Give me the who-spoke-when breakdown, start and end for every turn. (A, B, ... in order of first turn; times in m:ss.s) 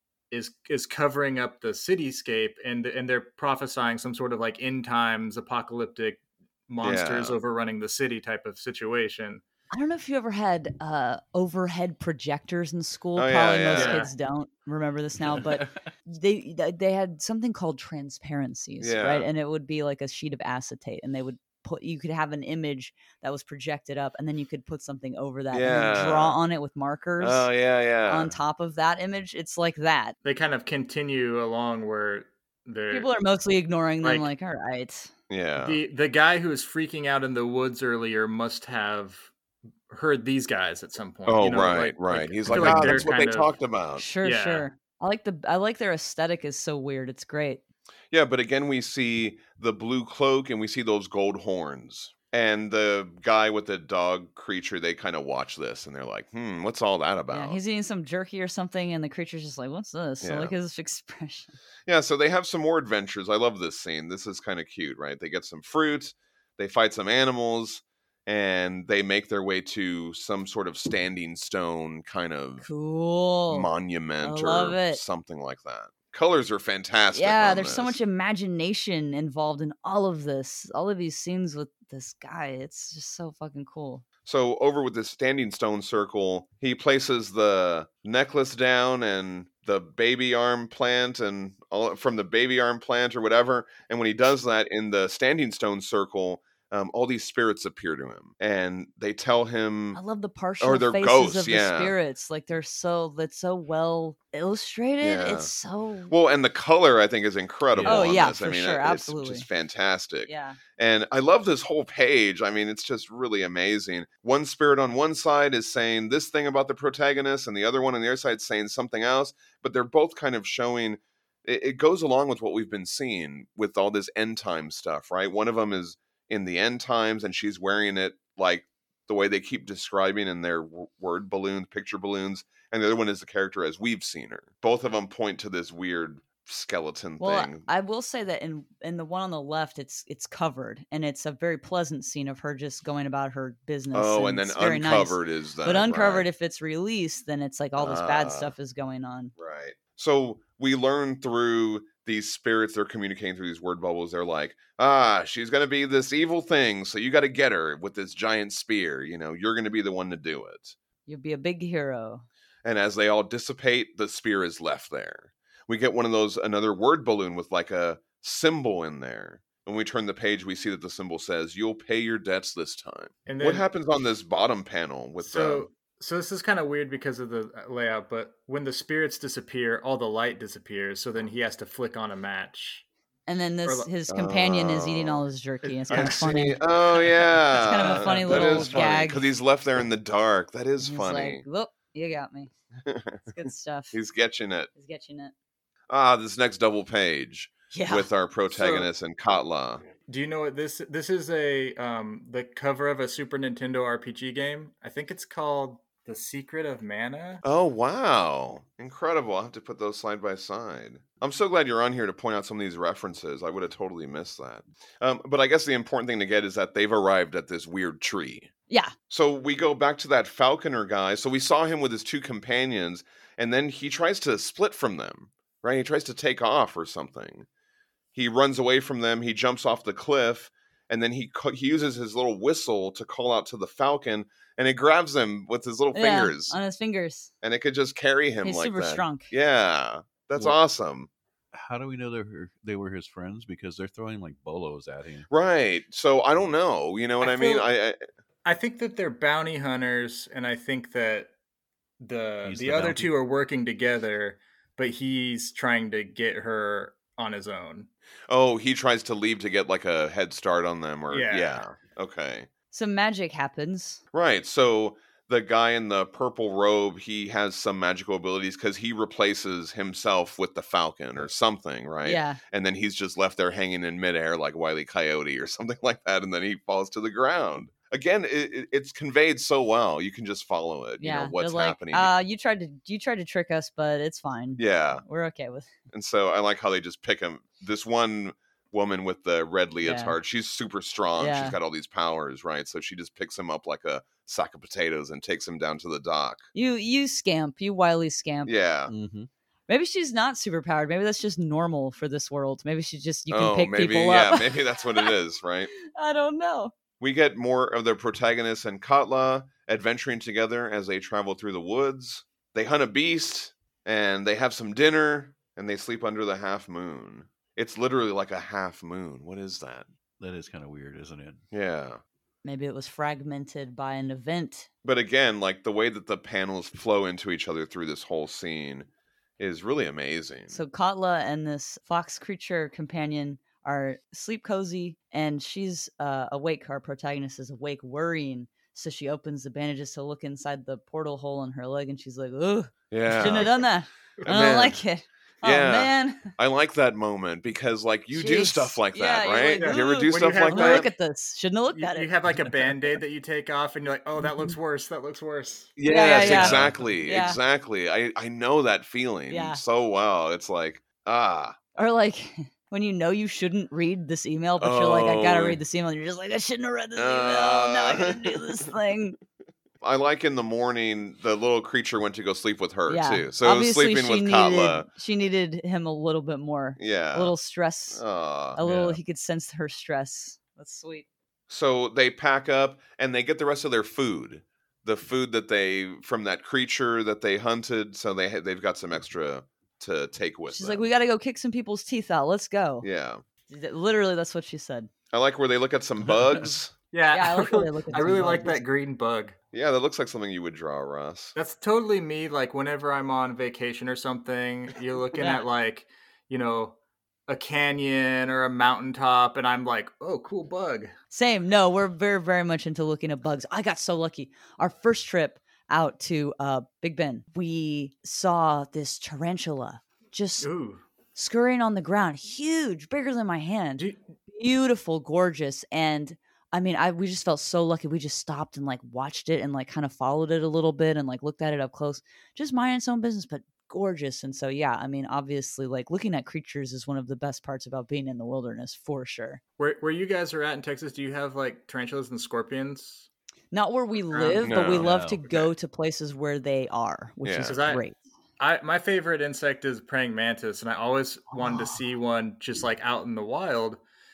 0:00.3-0:09.4 A
0:06.8-0:07.4 B
0:09.7-0:27.5 C
0:13.2-0:14.0 B
0:13.8-0:14.1 A
0:18.8-0:19.3 B
0:25.5-0:26.4 B
0:27.2-0:28.4 B
0:28.1-0:30.2 C
0:30.2-0:33.1 A
0:32.9-0:35.1 C
0:34.0-0:34.3 A
0:35.3-0:35.8 B
0:35.6-0:39.3 A
0:39.9-0:43.6 A
0:41.3-0:44.1 B
0:42.5-0:43.1 C
0:44.0-0:47.6 C
0:44.2-0:44.7 A
0:48.1-0:57.6 B
0:57.3-1:01.6 C
1:00.2-1:00.5 B
1:01.9-1:12.7 B
1:12.6-1:13.7 C
1:13.5-1:18.0 B
1:14.2-1:15.0 C
1:17.1-1:24.0 C
1:24.2-1:40.0 B
1:40.0-1:46.1 C
1:40.6-1:42.0 B
1:45.0-1:45.5 B
1:46.1-2:17.7 B
1:47.7-1:48.2 D
1:47.8-1:49.5 C
1:50.3-1:50.6 C
2:17.2-2:29.3 C
2:23.9-2:26.3 B
2:27.8-2:28.5 B
2:29.4-2:40.8 B
2:41.1-2:42.2 C
2:42.6-2:55.7 B
2:53.2-2:53.7 A
2:55.2-3:02.9 A
3:03.3-3:06.6 C
3:03.6-3:03.9 A
3:04.1-3:05.2 B
3:05.6-3:08.9 A
3:05.9-3:11.4 B
3:07.5-3:09.3 C
3:10.8-3:12.5 C
3:12.8-3:13.3 B
3:13.3-3:14.0 C
3:13.9-3:14.7 B
3:14.8-3:15.3 C
3:15.9-3:19.9 B
3:17.7-3:18.1 C
3:18.5-3:18.9 A
3:20.1-3:27.4 A
3:27.4-3:38.5 B
3:38.7-3:38.9 C
3:39.1-3:47.5 B
3:48.2-3:56.6 B
3:55.9-3:57.3 C
3:57.4-4:01.1 B
3:58.4-3:59.3 C
4:01.5-4:05.3 D
4:05.3-4:08.0 B
4:07.2-4:07.7 A
4:08.4-4:11.3 A
4:12.0-4:17.9 A
4:12.4-4:13.1 D
4:18.3-4:22.5 B
4:21.1-4:21.6 A
4:22.7-4:24.0 C
4:24.1-4:42.1 B
4:32.0-4:32.4 C
4:41.0-4:45.7 C
4:44.6-4:45.0 B
4:45.9-4:56.4 B
4:49.8-4:50.2 C
4:51.2-4:51.6 C
4:56.5-4:58.5 C
4:58.5-4:58.9 B
4:58.9-4:59.3 D
4:59.7-5:05.1 C
5:03.3-5:05.7 B
5:05.8-5:06.7 C
5:07.0-5:19.9 B
5:20.2-5:21.4 D
5:21.5-5:22.0 B
5:22.4-5:24.7 C
5:24.8-5:28.9 B
5:29.4-5:30.6 B
5:30.5-5:46.3 C
5:42.9-5:43.6 B
5:44.2-5:44.8 B
5:45.4-5:50.9 B
5:48.1-5:52.1 C
5:49.6-5:50.9 A
5:51.7-5:55.7 A
5:55.8-6:01.6 B
5:55.8-5:57.4 C
5:56.2-5:57.0 D
5:59.3-5:59.6 C
6:01.8-6:09.2 C
6:04.6-6:05.6 B
6:07.0-6:08.4 B
6:09.8-6:14.9 B
6:12.9-6:18.0 C
6:16.8-6:17.4 B
6:17.9-6:18.6 B
6:18.6-6:21.1 C
6:18.6-6:19.0 D
6:21.5-6:30.9 B
6:30.5-6:32.9 C
6:32.8-6:33.2 B
6:33.5-6:34.9 C
6:35.1-6:36.8 B
6:36.0-6:36.6 D
6:36.9-6:39.4 A
6:37.1-6:38.6 C
6:39.5-6:41.4 B
6:41.4-6:50.9 A
6:45.2-6:45.4 C
6:51.1-7:00.5 C
7:00.4-7:00.8 A
7:01.2-7:19.4 C
7:19.6-7:23.1 A
7:23.5-7:28.0 C
7:24.1-7:24.6 A
7:24.4-7:25.0 B
7:24.8-7:25.2 D
7:25.3-7:25.5 A
7:27.2-7:27.6 B
7:27.4-7:27.8 A
7:28.4-7:33.8 A
7:31.4-7:31.7 C